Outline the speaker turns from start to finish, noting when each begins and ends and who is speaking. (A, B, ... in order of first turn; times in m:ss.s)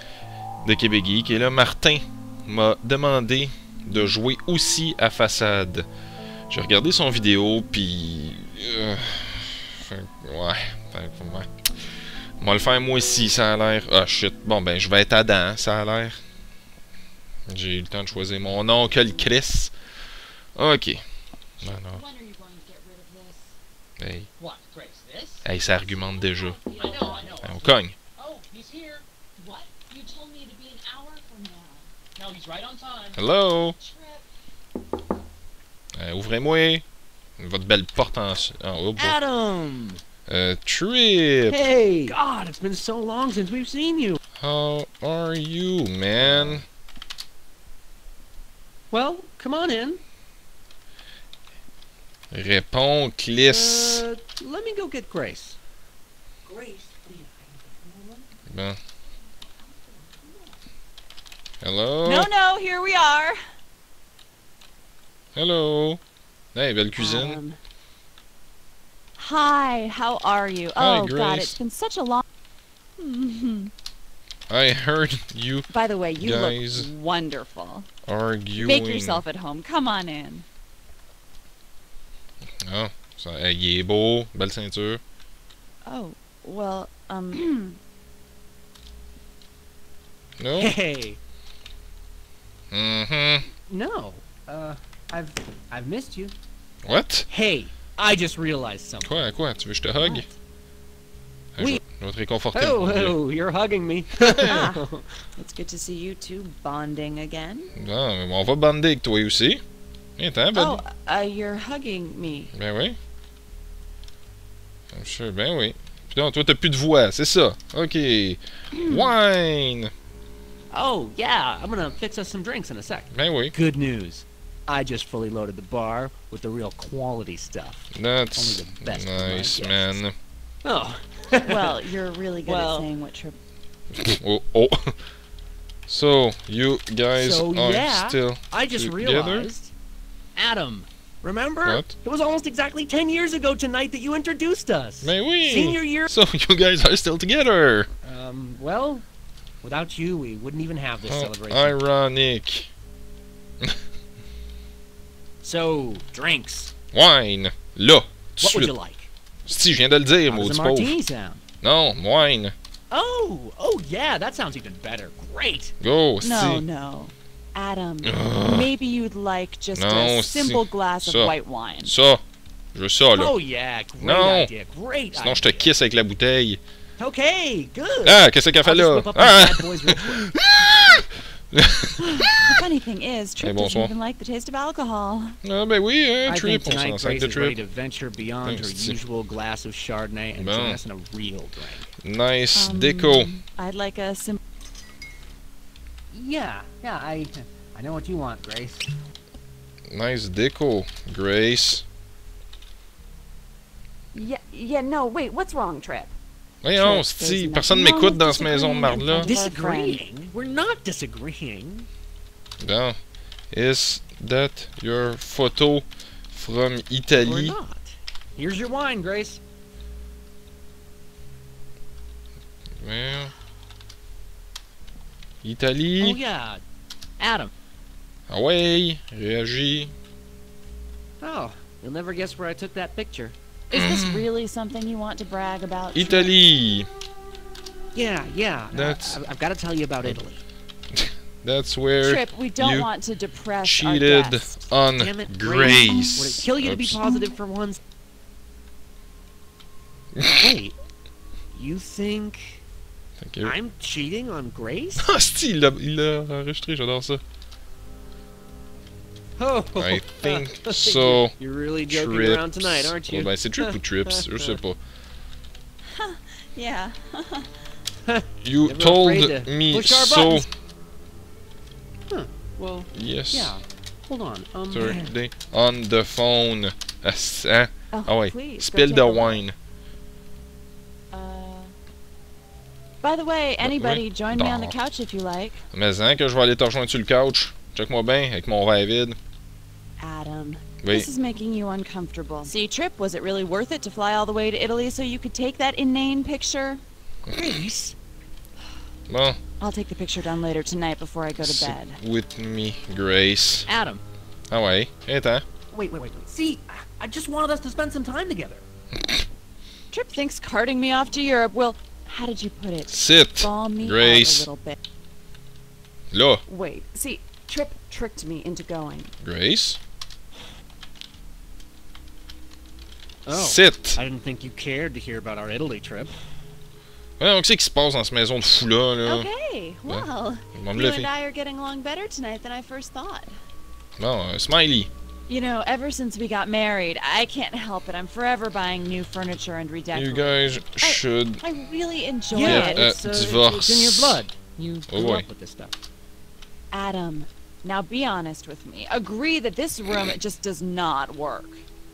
0:00.6-0:05.8 A
0:06.5-0:11.5 A
0:12.4-0:16.2 A
0:17.5-0:19.7 A
0:20.6-0:21.0 A
0:21.6-0:22.0 A
0:21.6-0:23.5 B
0:24.0-0:24.3 A
0:24.4-0:25.4 C
0:25.4-0:26.6 A
0:25.6-0:27.4 B
0:26.8-0:29.0 C
0:27.4-0:28.0 A
0:29.4-0:31.9 B
0:32.2-0:33.2 C
0:33.1-0:33.8 A
0:33.8-0:34.2 B
0:36.0-0:36.8 A
0:37.4-0:39.2 A
0:39.0-0:40.0 C
0:40.3-0:41.6 A
0:41.5-0:44.2 C
0:44.4-0:46.6 A
0:46.2-0:46.6 C
0:48.9-0:50.0 C
0:52.3-0:54.0 A
0:53.4-0:55.6 C
0:56.4-0:58.2 C
0:58.5-0:58.8 A
1:01.6-1:02.3 A
1:02.0-1:03.4 B
1:05.3-1:06.0 A
1:06.5-1:07.4 A
1:07.0-1:07.6 B
1:09.2-1:12.2 B
1:10.8-1:11.6 A
1:13.0-1:13.7 B
1:14.5-1:16.9 A
1:15.7-1:17.9 B
1:18.1-1:19.2 A
1:18.6-1:20.4 B
1:22.6-1:25.0 A
1:25.8-1:27.8 B
1:30.4-1:30.7 A
1:30.6-1:31.2 C
1:32.7-1:33.5 A
1:33.6-1:36.3 C
1:36.8-1:37.3 A
1:37.3-1:39.2 C
1:39.0-1:40.3 A
1:40.0-1:40.3 B
1:41.6-1:43.2 A
1:42.5-1:45.2 C
1:44.4-1:44.8 B
1:45.4-1:47.7 B
1:47.8-1:49.6 A
1:50.2-1:50.8 A
1:50.5-1:52.5 B
1:52.5-1:53.0 A
1:54.9-1:59.9 A
1:58.8-1:59.1 B
2:00.7-2:10.0 C
2:03.1-2:03.5 A
2:07.9-2:10.1 A
2:10.6-2:11.8 C
2:11.4-2:13.4 B
2:12.4-2:12.9 C
2:13.9-2:15.0 A
2:15.9-2:19.5 A
2:17.1-2:19.7 C
2:20.4-2:26.1 C
2:21.6-2:21.9 A
2:25.0-2:27.9 A
2:28.0-2:29.0 C
2:29.6-2:31.8 C
2:31.0-2:32.7 A
2:35.4-2:36.7 C
2:36.9-2:38.7 A
2:38.4-2:39.1 C
2:39.5-2:41.0 A
2:40.3-2:41.4 C
2:41.6-2:42.5 A
2:42.9-2:45.7 C
2:45.8-2:46.6 A
2:46.2-2:52.0 B
2:48.0-2:48.7 A
2:49.7-2:52.2 A
2:52.7-2:53.3 A
2:53.1-2:55.7 C
2:54.0-2:54.5 A
2:55.1-2:56.6 A
2:57.0-3:00.3 C
2:58.0-3:02.6 A
3:02.0-3:05.4 B
3:03.4-3:03.9 A
3:05.4-3:07.6 A
3:06.2-3:11.9 C
3:08.4-3:09.0 A
3:10.3-3:10.8 A
3:12.0-3:13.3 A
3:12.5-3:14.4 B
3:16.1-3:18.9 C
3:19.9-3:21.8 A
3:24.1-3:26.1 B
3:26.6-3:29.3 A
3:26.8-3:30.0 B
3:29.2-3:31.9 C
3:32.6-3:33.0 A
3:33.5-3:37.6 A
3:37.1-3:39.4 C
3:42.8-3:43.3 A
3:45.4-3:46.2 A
3:46.0-3:46.6 C
3:47.2-3:47.5 C
3:48.3-3:49.9 A
3:51.2-3:53.4 C
3:53.7-3:56.3 B
3:53.7-3:54.3 A
3:55.9-3:56.9 A
3:57.9-4:00.4 C
3:58.7-3:59.2 A
4:00.9-4:02.9 A
4:02.0-4:04.7 B
4:03.6-4:07.0 A
4:05.0-4:07.8 C
4:10.2-4:10.5 A
4:10.3-4:10.8 C
4:11.5-4:12.6 C
4:13.2-4:13.5 A
4:13.4-4:15.1 C
4:15.0-4:17.2 A
4:19.4-4:24.6 C
4:19.8-4:21.3 A
4:21.9-4:24.8 A
4:25.9-4:27.5 B
4:28.0-4:30.5 C
4:28.4-4:30.5 A
4:32.1-4:35.1 C
4:32.9-4:33.6 A
4:34.7-4:39.6 A
4:37.9-4:39.4 B
4:41.1-4:41.7 B
4:43.0-4:45.6 B
4:43.6-4:44.8 A
4:45.7-4:49.2 A
4:50.0-4:56.8 B
4:50.8-4:51.1 A
4:57.3-4:58.0 C
4:59.1-4:59.4 A
4:59.6-5:02.0 B
5:01.4-5:03.7 A
5:03.7-5:04.0 C
5:04.5-5:05.4 A
5:05.7-5:06.2 B
5:05.9-5:08.6 C
5:09.9-5:14.8 B
5:12.9-5:14.5 A
5:16.1-5:16.4 A
5:16.5-5:19.1 B
5:19.2-5:19.8 A
5:23.2-5:26.1 C
5:23.3-5:24.0 A
5:27.2-5:29.2 A
5:29.0-5:33.3 B
5:29.9-5:31.1 A
5:34.0-5:34.9 A
5:35.3-5:43.0 B
5:39.9-5:41.4 A
5:42.3-5:45.8 C
5:42.4-5:44.2 A
5:44.9-5:45.2 A
5:46.7-5:51.6 B